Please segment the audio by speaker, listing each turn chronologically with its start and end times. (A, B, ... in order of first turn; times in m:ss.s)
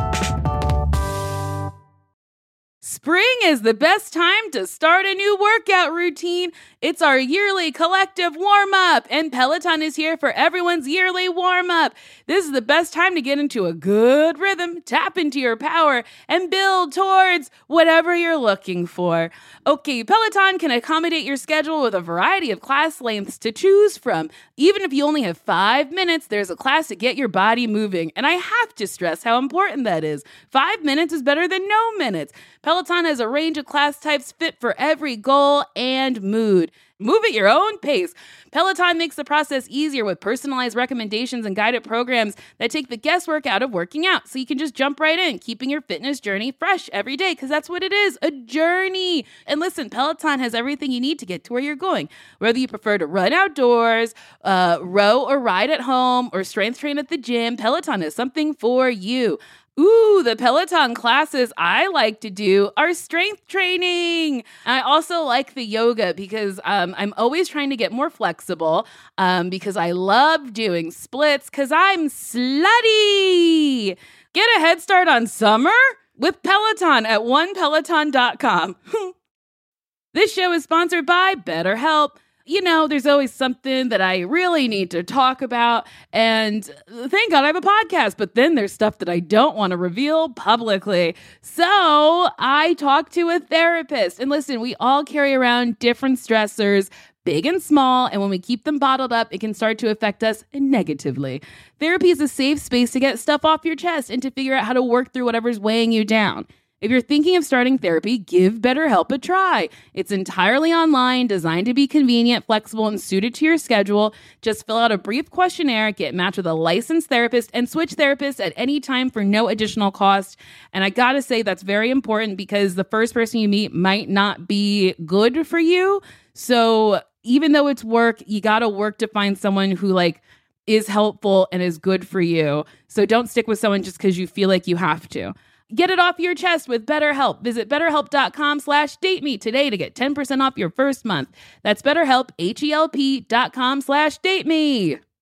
0:02.8-1:19.1 A
1:20.1-2:25.0 A